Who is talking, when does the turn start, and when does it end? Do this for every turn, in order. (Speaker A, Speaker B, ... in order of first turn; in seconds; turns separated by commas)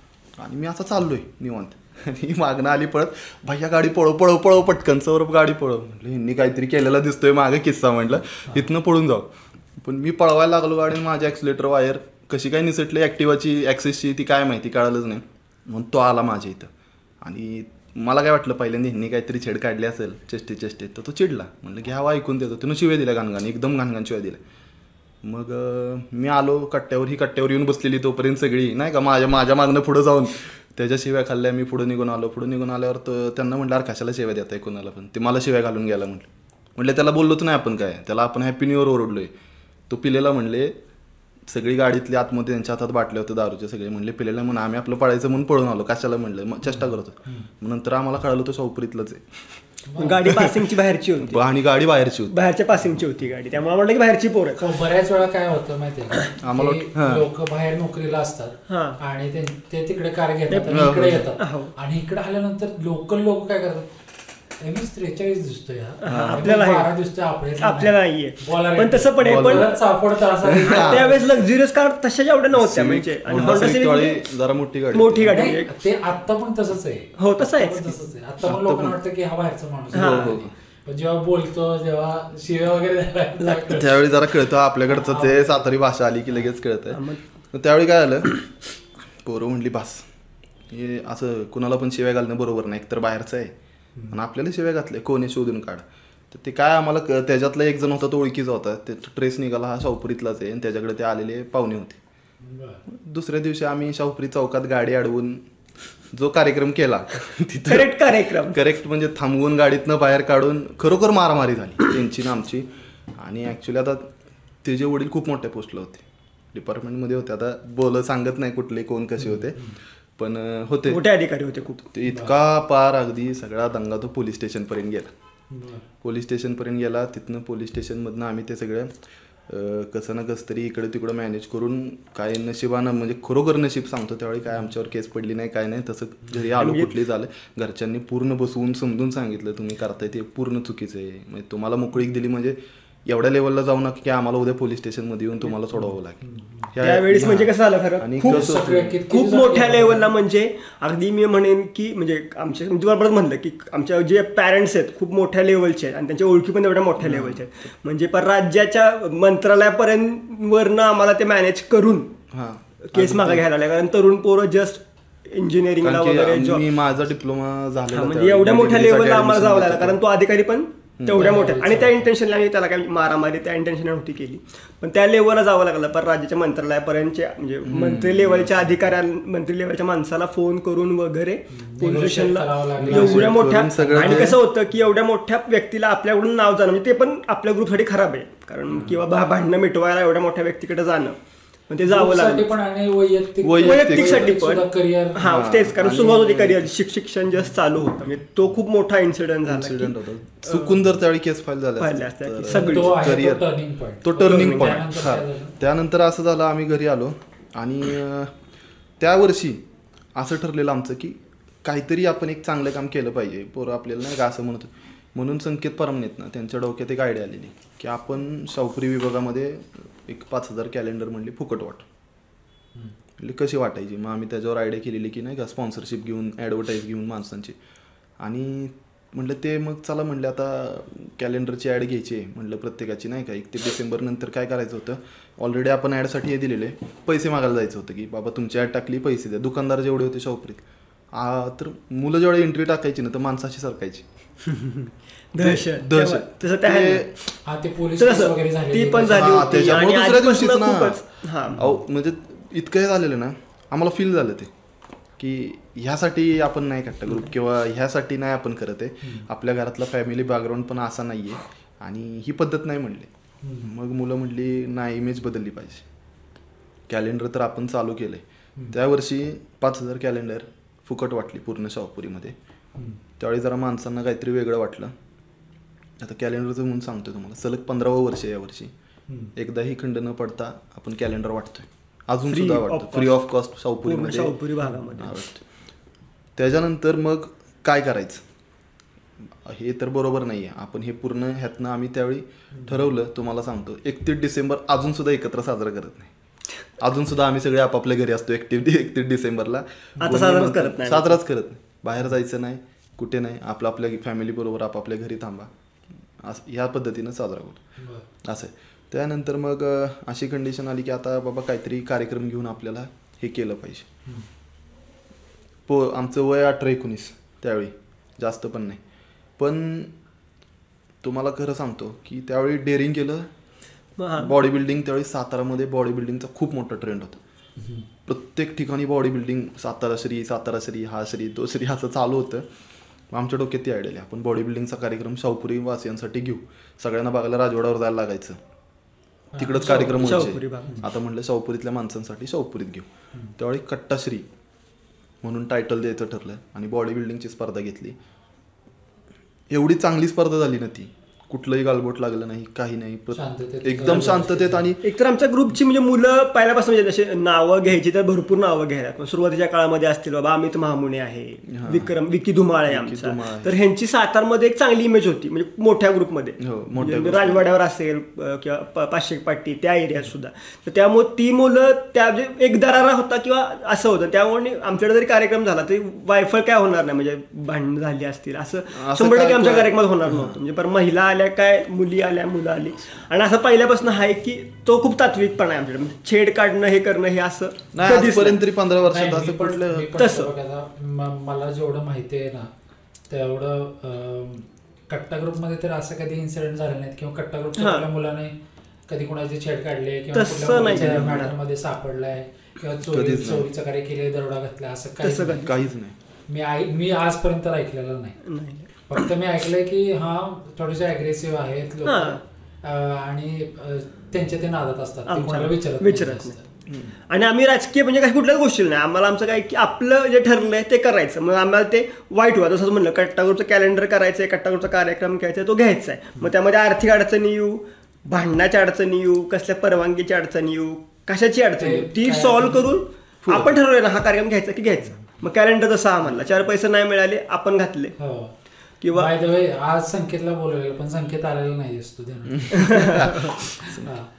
Speaker A: 0.4-24.4, Speaker A: 25.2-39.3, Speaker A: 39.9-40.7, Speaker A: 41.5-49.5, Speaker B: 46.7-47.5, Speaker B: 49.9-50.2, Speaker C: 50.0-51.4, Speaker A: 50.2-50.6, Speaker A: 51.2-52.3, Speaker C: 52.3-54.7, Speaker B: 54.6-63.9, Speaker A: 56.4-57.2, Speaker C: 58.7-59.0, Speaker C: 60.5-61.7, Speaker A: 60.7-61.3, Speaker B: 64.6-71.3, Speaker C: 66.0-66.9, Speaker A: 66.1-66.5, Speaker C: 67.6-69.8, Speaker A: 69.2-69.7, Speaker A: 70.4-71.1, Speaker C: 70.7-74.2, Speaker A: 72.5-75.4, Speaker B: 73.4-73.7, Speaker C: 74.9-75.7, Speaker B: 75.3-84.0, Speaker C: 77.2-77.9, Speaker A: 78.4-79.0, Speaker A: 79.9-80.5, Speaker C: 79.9-80.4, Speaker C: 83.4-83.8, Speaker A: 83.7-88.5, Speaker B: 84.9-85.7, Speaker C: 86.9-87.2, Speaker A: 89.2-90.1, Speaker A: 90.7-93.5, Speaker A: 94.1-102.0, Speaker B: 102.4-102.8, Speaker A: 102.9-105.4, Speaker A: 106.1-107.9, Speaker C: 107.7-108.6, Speaker A: 108.5-114.1, Speaker A: 114.6-121.0, Speaker B: 119.3-119.8, Speaker C: 120.9-121.9, Speaker A: 121.9-125.1, Speaker B: 122.1-122.4, Speaker B: 125.5-125.8, Speaker A: 126.0-128.9, Speaker A: 129.5-146.2, Speaker C: 136.6-136.9, Speaker B: 145.8-146.7, Speaker A: 146.7-149.0, Speaker C: 146.8-148.5, Speaker B: 148.2-150.1, Speaker C: 149.1-162.1, Speaker A: 157.0-157.5, Speaker A: 162.3-163.4, Speaker C: 162.9-166.7, Speaker A: 165.8-170.0, Speaker C: 167.9-191.2, Speaker A: 171.0-171.3, Speaker B: 171.1-172.1, Speaker A: 177.7-178.8, Speaker B: 181.5-184.4, Speaker A: 182.8-184.4, Speaker C: 191.7-192.5, Speaker B: 191.9-195.2, Speaker A: 193.4-194.4, Speaker C: 193.6-200.8, Speaker A: 195.2-196.7, Speaker A: 199.5-203.4, Speaker C: 201.8-203.1, Speaker B: 202.5-205.6, Speaker A: 204.0-208.3, Speaker C: 204.2-204.8, Speaker A: 209.0-209.6, Speaker A: 210.2-221.9, Speaker A: 223.2-227.6, Speaker A: 228.2-244.1, Speaker C: 244.5-247.1, Speaker A: 245.4-247.1, Speaker B: 247.5-249.8, Speaker C: 248.0-251.7, Speaker A: 249.1-251.0, Speaker A: 251.6-254.5, Speaker A: 255.2-263.1, Speaker B: 263.4-263.7, Speaker A: 263.6-265.9, Speaker A: 266.9-272.4, Speaker A: 273.2-274.9, Speaker A: 276.0-278.7, Speaker A: 279.4-284.3, Speaker C: 282.3-283.2, Speaker C: 283.8-285.3, Speaker A: 285.0-285.4, Speaker A: 286.4-288.2, Speaker A: 289.4-296.1, Speaker B: 292.5-292.9, Speaker A: 296.8-305.5, Speaker C: 300.0-301.2, Speaker A: 306.2-307.6, Speaker B: 307.8-308.1, Speaker A: 308.2-313.9, Speaker A: 315.7-318.8, Speaker A: 319.4-319.9, Speaker A: 321.0-323.3, Speaker C: 324.0-324.4, Speaker A: 324.2-327.2, Speaker A: 328.1-332.4, Speaker A: 333.1-338.4, Speaker B: 339.4-340.9, Speaker A: 339.4-342.9, Speaker C: 339.6-340.8, Speaker A: 343.4-344.3, Speaker A: 345.2-348.0, Speaker A: 349.5-354.8, Speaker B: 353.1-354.7, Speaker C: 354.8-388.4, Speaker A: 361.5-361.9, Speaker A: 362.7-363.5, Speaker A: 366.4-367.5, Speaker A: 378.7-380.4, Speaker A: 387.7-390.1, Speaker B: 388.9-392.5, Speaker C: 390.0-390.3, Speaker B: 393.1-398.3, Speaker C: 397.6-397.9, Speaker B: 398.9-405.5, Speaker C: 400.1-401.3, Speaker A: 400.6-401.3, Speaker A: 402.9-403.5, Speaker C: 405.0-405.6, Speaker A: 405.4-405.9, Speaker B: 406.3-408.2, Speaker C: 408.2-408.7, Speaker B: 408.9-416.4, Speaker C: 411.9-412.2, Speaker C: 415.1-416.4, Speaker C: 417.1-438.0, Speaker B: 431.6-432.7, Speaker A: 433.2-433.6, Speaker B: 438.0-438.3, Speaker C: 438.8-439.1, Speaker B: 438.9-444.1, Speaker A: 442.4-443.9, Speaker C: 442.5-443.3